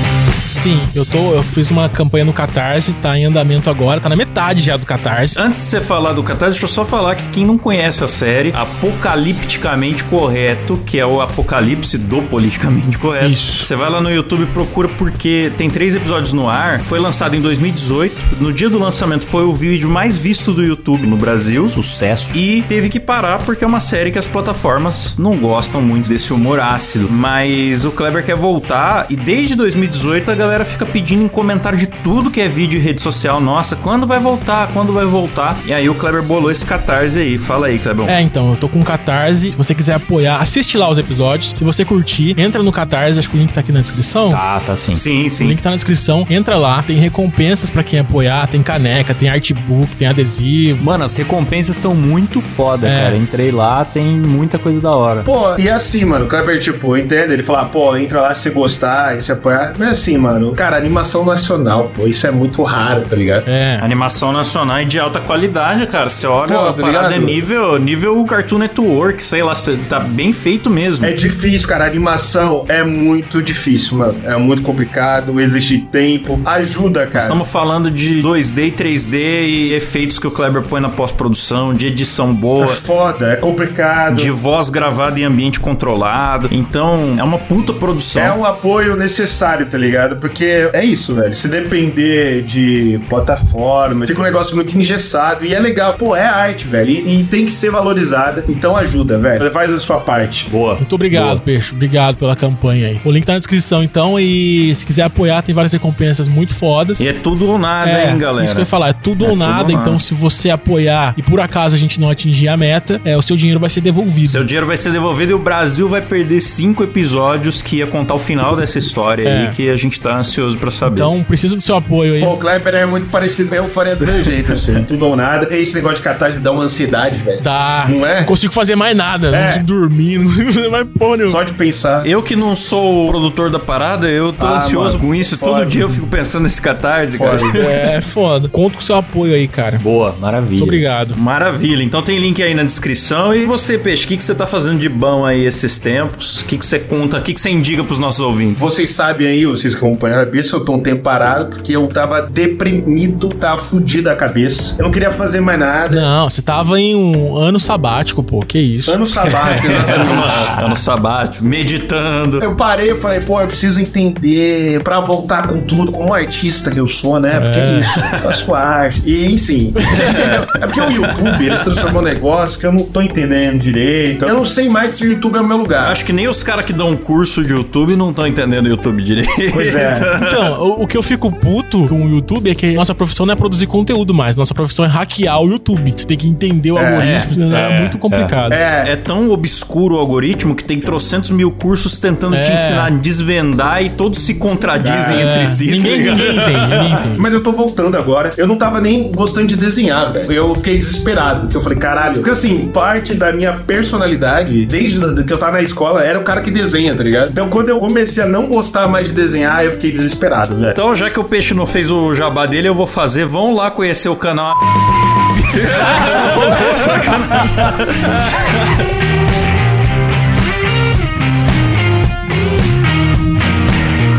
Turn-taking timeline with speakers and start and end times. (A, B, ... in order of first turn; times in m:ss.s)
0:00.5-0:05.4 A
0:05.3-0:21.8 B
0:13.2-0:13.7 A
0:21.7-0:22.4 C
0:22.3-0:38.1 B
0:38.0-0:44.4 A
0:44.3-0:45.0 C
0:44.9-0:45.6 B
0:45.4-0:51.0 A
0:50.8-0:55.3 C
0:52.8-0:53.2 A
0:55.2-1:03.5 D
1:03.4-1:03.8 A
1:03.8-1:11.1 B
1:06.4-1:07.4 D
1:11.0-1:17.4 D
1:17.1-1:22.8 B
1:22.6-1:24.3 D
1:24.1-1:28.4 B
1:28.1-1:40.5 D
1:40.5-1:41.4 C
1:40.8-1:47.1 A
1:47.0-1:50.0 B
1:47.8-1:54.4 A
1:54.2-2:01.1 B
1:59.2-1:59.5 A
2:00.9-2:02.3 A
2:02.2-2:08.3 D
2:07.4-2:11.4 A
2:09.3-2:09.6 D
2:11.2-2:12.1 D
2:12.0-2:17.8 B
2:14.4-2:15.8 D
2:17.1-2:17.5 D
2:17.6-2:19.8 A
2:19.8-2:20.8 C
2:20.6-2:21.2 A
2:21.1-2:28.6 B
2:28.6-2:36.1 D
2:35.9-2:39.6 A
2:38.8-2:40.5 D
2:39.7-2:42.5 B
2:40.1-2:40.6 C
2:42.4-2:56.0 D
2:47.3-2:47.9 A
2:49.9-2:50.2 A
2:50.0-2:50.3 B
2:51.3-2:51.9 B
2:55.8-3:00.5 B
2:59.5-3:00.1 D
3:00.2-3:08.6 A
3:06.7-3:07.8 D
3:07.0-3:07.3 B
3:07.5-3:08.4 C
3:08.5-3:08.9 D
3:08.8-3:17.0 B
3:12.3-3:12.9 A
3:14.8-3:15.5 D
3:15.1-3:17.2 A
3:17.1-3:30.8 D
3:30.7-3:34.6 B
3:35.3-3:38.8 B